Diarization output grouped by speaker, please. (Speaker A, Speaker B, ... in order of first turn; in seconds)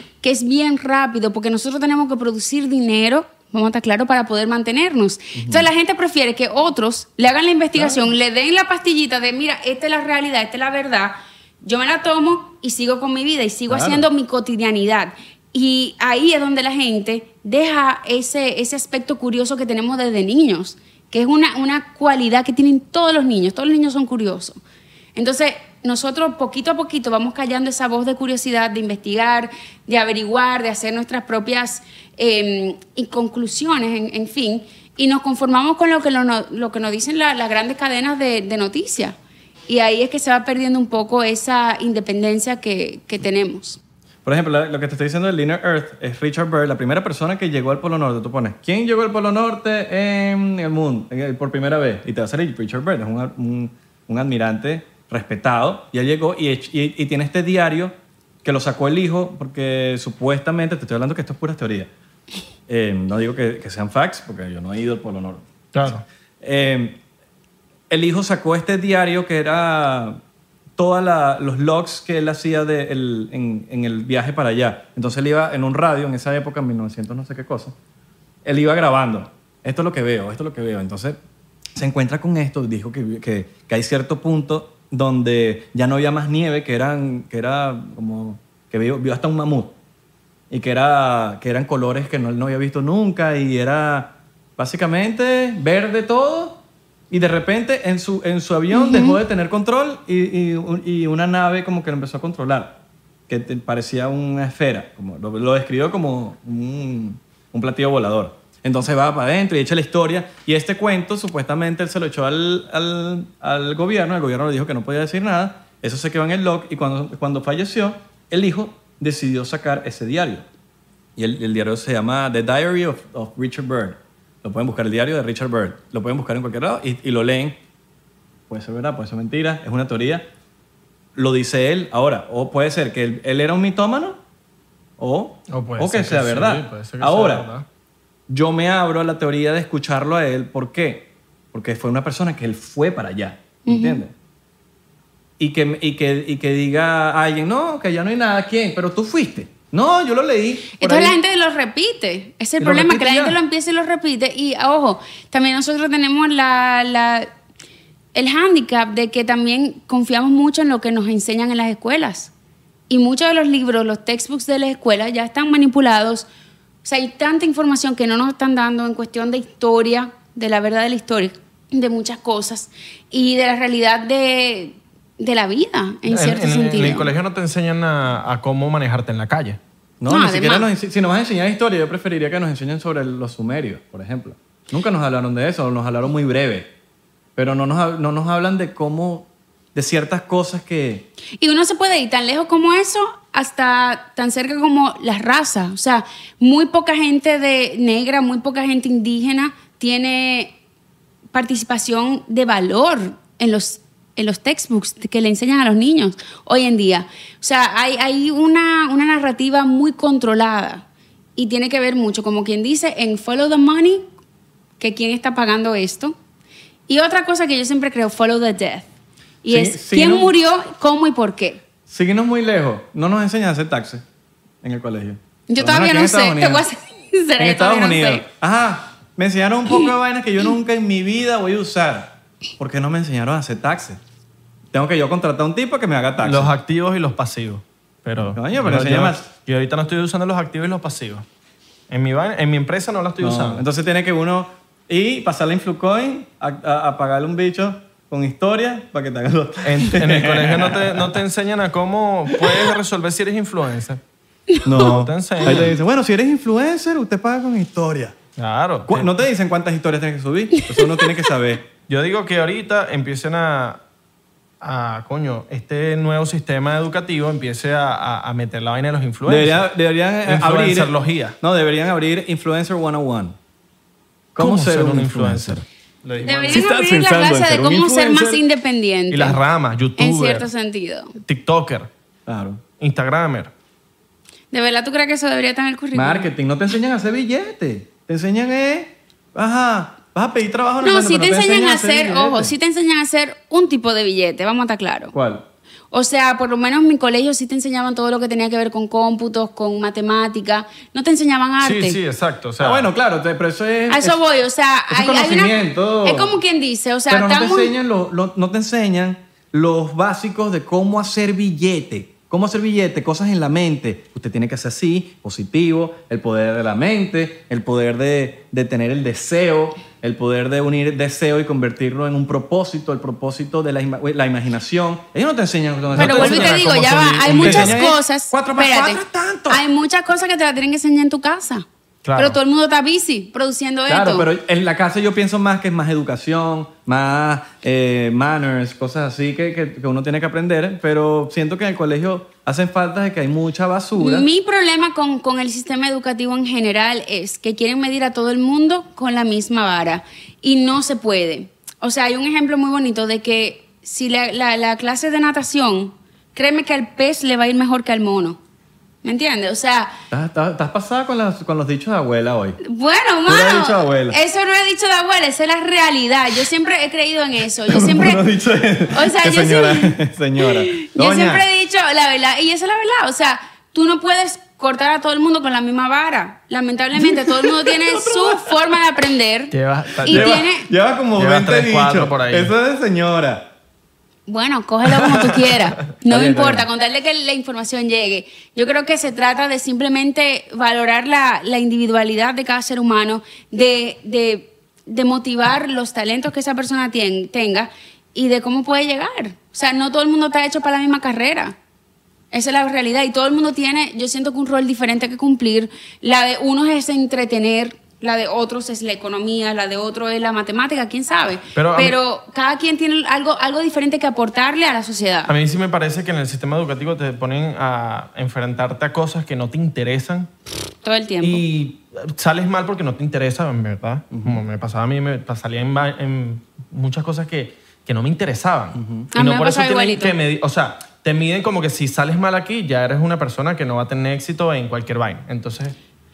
Speaker A: 0.2-24.6, 25.1-39.2, 39.7-43.8, 98.7-99.2, 143.7-144.0, 150.8-157.3, 158.2-162.3, 162.9-166.3, 166.8-177.1, 180.1-180.7, 191.4-200.6, 201.3-210.8, 211.4-214.1, 214.8-216.2, 216.9-218.9, 219.4-221.6, 225.5-228.2, 260.7-261.1, 276.2-279.4, 280.0-281.2, 284.5-286.3, 290.8-295.1, 295.9-302.0, 303.9-307.7, 326.0-331.6, 332.2-334.3, 344.0-358.4, 359.0-360.0, 362.6-368.2, 368.9-380.7, 384.3-401.6, 402.3-415.3, 420.8-421.4, 429.1-430.1
Speaker B: 5.3-5.7, 7.8-8.0, 13.7-14.1, 44.2-61.9, 62.7-67.0, 67.9-70.2, 70.8-77.8, 78.5-81.2, 81.8-89.8, 90.5-120.5, 121.2-127.6, 128.5-130.3, 131.2-134.2, 135.0-137.5, 138.3-144.1, 145.4-151.2, 152.6-153.4, 180.0-186.7, 187.4-191.1, 219.5-220.3, 221.9-224.0, 224.6-226.7, 227.4-234.0, 234.7-236.5, 238.3-239.3, 243.2-251.2, 254.6-258.2, 258.9-261.7, 269.3-273.4, 274.4-275.6, 276.5-278.4, 282.3-282.6, 285.9-292.5, 295.1-295.4, 302.6-304.2, 304.9-306.4, 307.1-326.6, 327.3-329.6, 333.9-344.3, 360.1-362.6, 363.3-364.2, 367.7-371.5, 377.0-378.7, 380.1-383.5, 386.1-386.7, 424.1-424.4, 428.7-429.1
Speaker C: 65.7-66.0, 135.5-137.7, 176.1-179.6, 236.2-241.3, 241.9-243.7, 249.6-254.0, 254.8-255.8, 258.4-259.2, 261.9-263.8, 264.6-269.7, 270.3-271.4, 274.4-276.7, 279.1-280.5, 281.2-281.9, 282.8-283.5, 301.6-302.9, 325.9-327.9, 332.0-332.4, 379.5-380.5, 381.1-382.5, 385.0-385.6, 411.6-412.0, 415.3-420.3, 421.2-435.8